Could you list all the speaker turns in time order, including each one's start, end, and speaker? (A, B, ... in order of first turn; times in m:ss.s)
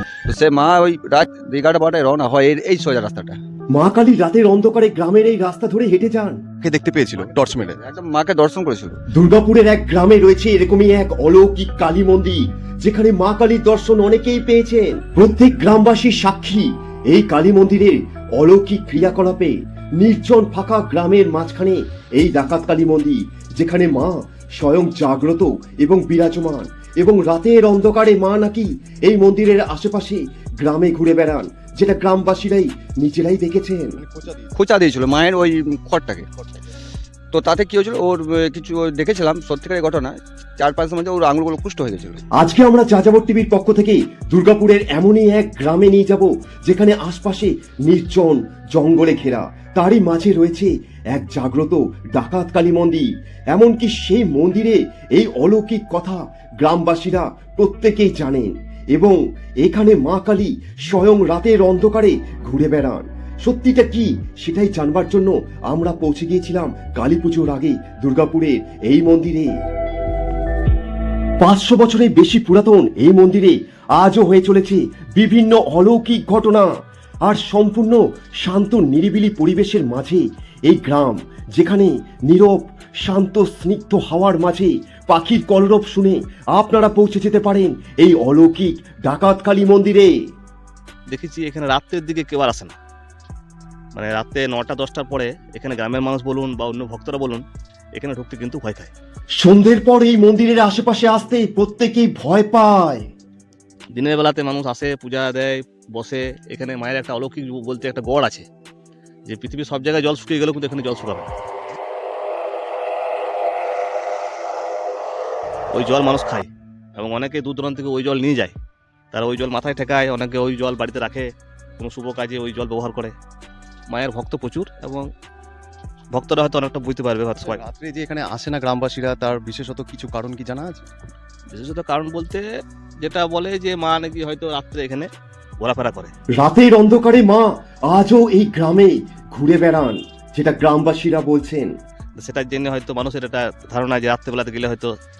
0:00.3-0:03.4 A
0:03.7-0:06.4 B
0:06.6-0:07.8 C
0:07.2-0:09.0 A
0:09.2-0:34.0 B
0:33.9-0:34.5 C
0:34.5-0:36.3 A
0:37.3-0:42.2 A
0:42.4-1:09.5 B
1:11.4-1:16.7 B
1:17.2-1:30.1 B
1:31.1-1:32.8 D
1:33.9-1:38.9 D
1:39.4-1:43.1 B
1:43.9-1:48.5 D
1:49.3-1:51.3 D
1:55.7-1:58.6 D
1:59.1-2:03.1 D
2:03.9-2:05.1 D
2:06.1-2:07.6 D
2:07.4-2:10.8 C
2:11.5-2:12.4 D
2:13.0-2:16.1 D
2:16.4-2:21.7 B
2:22.2-2:24.9 D